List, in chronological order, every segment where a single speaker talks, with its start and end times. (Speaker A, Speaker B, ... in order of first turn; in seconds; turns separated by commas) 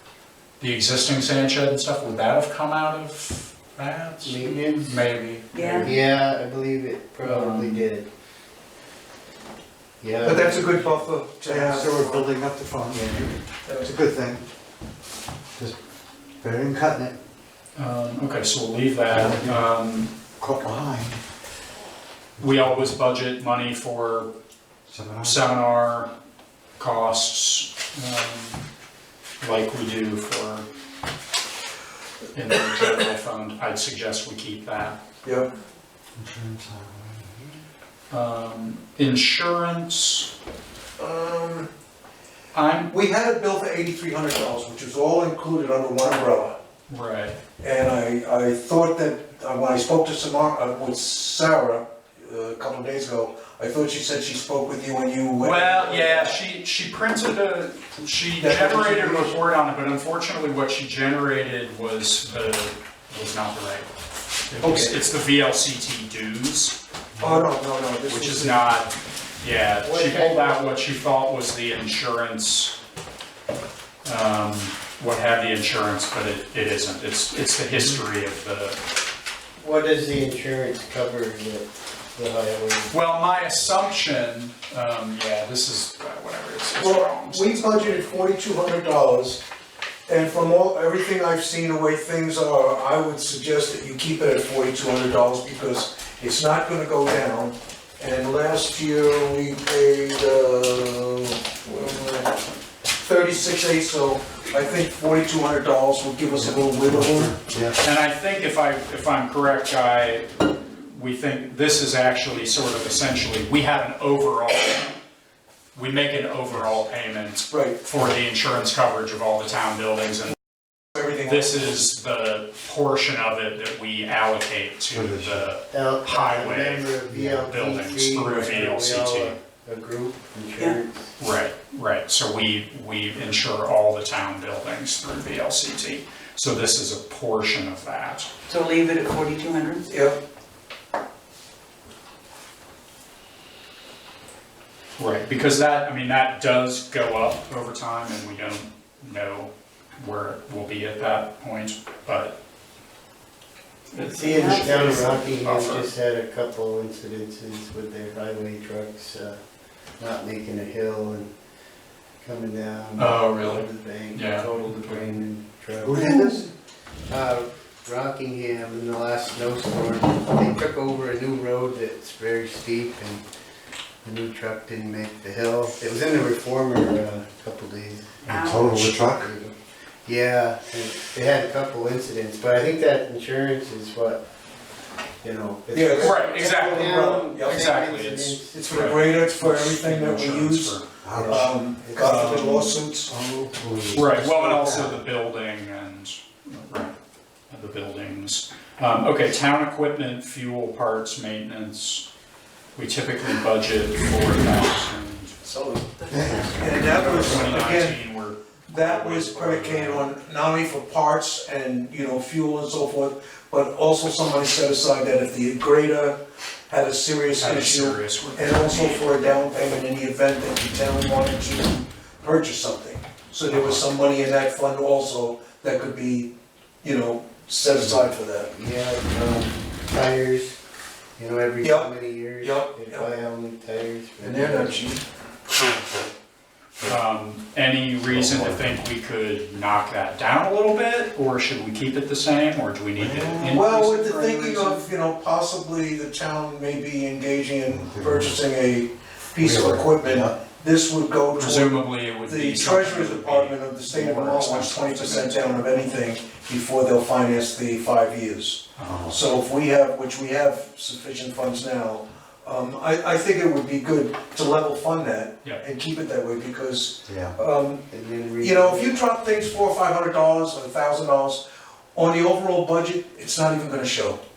Speaker A: 0.6-6.0, Speaker B: 4.2-8.1, Speaker C: 5.5-5.9, Speaker A: 7.2-7.8, Speaker B: 10.0-11.1, Speaker D: 10.2-12.2, Speaker E: 11.4-14.4, Speaker D: 13.7-13.9, Speaker E: 16.4-17.2, Speaker A: 17.8-20.1, Speaker E: 19.1-19.7, Speaker E: 20.4-21.2, Speaker A: 22.4-24.3, Speaker E: 24.9-25.4, Speaker A: 25.2-26.1, Speaker A: 26.8-28.6, Speaker A: 29.4-30.6, Speaker A: 32.3-35.0, Speaker E: 36.2-37.6, Speaker A: 38.1-40.3, Speaker D: 41.0-41.7, Speaker A: 42.5-42.9, Speaker D: 42.9-46.6, Speaker A: 46.9-47.4, Speaker D: 47.6-56.4, Speaker A: 55.4-63.9, Speaker D: 58.4-59.4, Speaker A: 64.5-66.8, Speaker D: 64.6-64.9, Speaker E: 67.2-67.5, Speaker D: 67.2-68.7, Speaker A: 68.1-72.8, Speaker B: 69.8-70.6, Speaker A: 74.0-78.8, Speaker B: 79.6-83.0, Speaker A: 82.9-88.2, Speaker D: 86.8-89.4, Speaker D: 90.1-102.3, Speaker D: 103.0-107.3, Speaker E: 106.3-107.8, Speaker A: 107.8-114.9, Speaker A: 115.8-120.4, Speaker D: 117.5-117.9, Speaker D: 121.0-121.7, Speaker A: 121.2-129.4, Speaker E: 124.9-125.5, Speaker B: 125.7-131.2, Speaker E: 127.1-127.5, Speaker A: 131.2-138.3, Speaker C: 138.5-139.9, Speaker D: 139.9-140.2, Speaker A: 145.0-152.3, Speaker A: 153.9-155.9, Speaker B: 154.0-159.4, Speaker C: 154.3-154.9, Speaker B: 160.0-161.3, Speaker B: 162.2-166.5, Speaker A: 163.0-165.2, Speaker E: 165.8-166.5, Speaker B: 167.1-173.2, Speaker B: 174.0-179.5, Speaker E: 178.3-179.3, Speaker C: 178.3-179.0, Speaker B: 180.1-184.2, Speaker B: 185.2-189.0, Speaker D: 185.7-187.7, Speaker A: 186.0-190.9, Speaker D: 188.6-193.1, Speaker E: 191.0-191.5, Speaker B: 191.1-192.7, Speaker A: 192.0-192.6, Speaker E: 192.2-195.0, Speaker A: 193.9-196.9, Speaker A: 197.5-202.1, Speaker A: 202.8-205.4, Speaker E: 206.1-207.6, Speaker D: 206.4-208.0, Speaker A: 207.0-210.1, Speaker D: 208.7-216.2, Speaker D: 216.7-226.3, Speaker A: 217.4-219.3, Speaker E: 223.5-223.8, Speaker D: 226.8-228.5, Speaker B: 228.4-230.6, Speaker B: 231.2-234.9, Speaker D: 231.6-233.1, Speaker D: 234.2-235.0, Speaker E: 235.7-236.0, Speaker A: 236.9-244.9, Speaker E: 238.0-238.7, Speaker E: 242.9-243.6, Speaker D: 243.4-267.9, Speaker E: 247.7-248.5, Speaker E: 249.4-250.4, Speaker A: 251.4-255.6, Speaker E: 258.8-259.3, Speaker E: 267.1-267.4, Speaker B: 267.9-269.0, Speaker D: 268.4-271.4, Speaker D: 271.9-274.2